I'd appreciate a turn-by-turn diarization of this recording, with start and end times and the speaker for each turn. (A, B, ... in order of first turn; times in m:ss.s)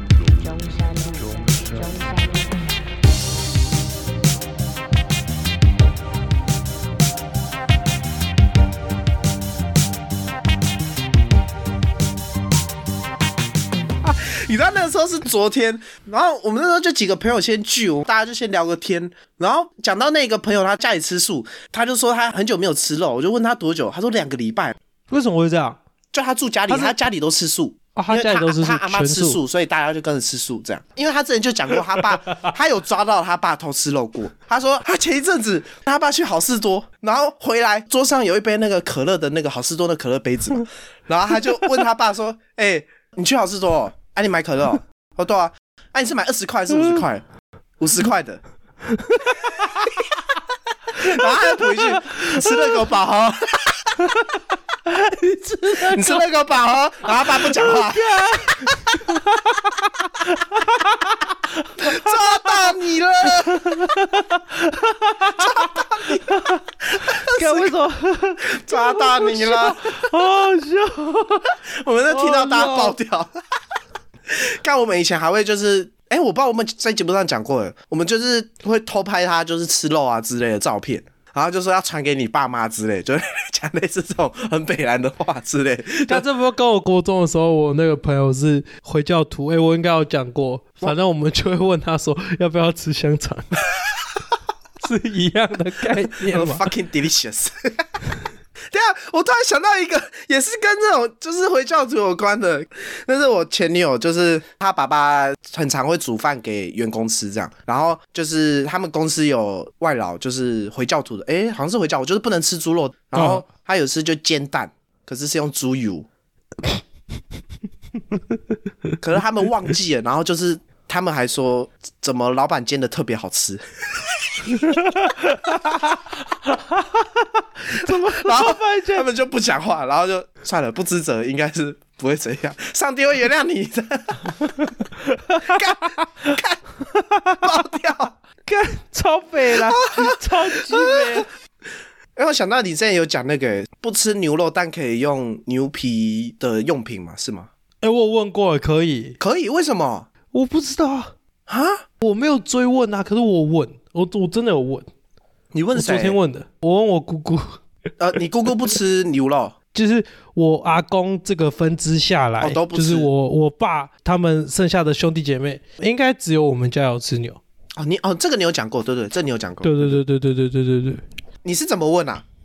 0:00.2-0:02.6 A
0:14.0-0:24.8 B
0:25.1-0:25.8 C
0:26.1-0:47.2 B
0:26.7-0:27.0 C
0:28.0-0:29.4 C
0:47.8-0:48.4 B
0:48.9-0:49.3 C
0:49.6-0:49.9 B
0:50.9-0:54.1 B
0:51.1-0:52.6 C
0:54.9-0:56.2 C
0:55.6-0:59.1 B
0:57.2-1:02.1 C
1:01.8-1:04.0 B
1:03.5-1:11.6 C
1:05.3-1:06.2 B
1:06.9-1:07.8 B
1:08.5-1:10.1 B
1:11.7-1:13.3 B
1:12.1-1:12.9 C
1:14.3-1:26.2 B
1:26.0-1:33.5 C
1:34.8-1:36.6 C
1:36.3-1:37.8 B
1:38.7-1:56.1 B
1:53.2-1:53.4 C
1:59.0-2:04.6 B
2:04.5-2:09.1 C
2:07.7-2:14.7 B
2:15.1-2:15.6 C
2:15.4-2:16.6 B
2:16.9-2:17.4 C
2:17.4-2:18.2 B
2:18.5-2:21.3 C
2:19.5-2:21.2 B
2:22.2-2:27.5 B
2:27.8-2:29.2 C
2:29.2-2:30.1 B
2:30.3-2:31.1 C
2:31.5-2:31.8 B
2:32.0-2:34.9 C
2:35.5-2:36.2 B
2:35.7-2:37.6 C
2:38.0-2:39.6 B
2:39.7-2:47.4 C
2:42.4-2:43.1 B
2:47.8-2:50.0 B
2:49.6-2:51.0 C
2:51.4-2:52.2 B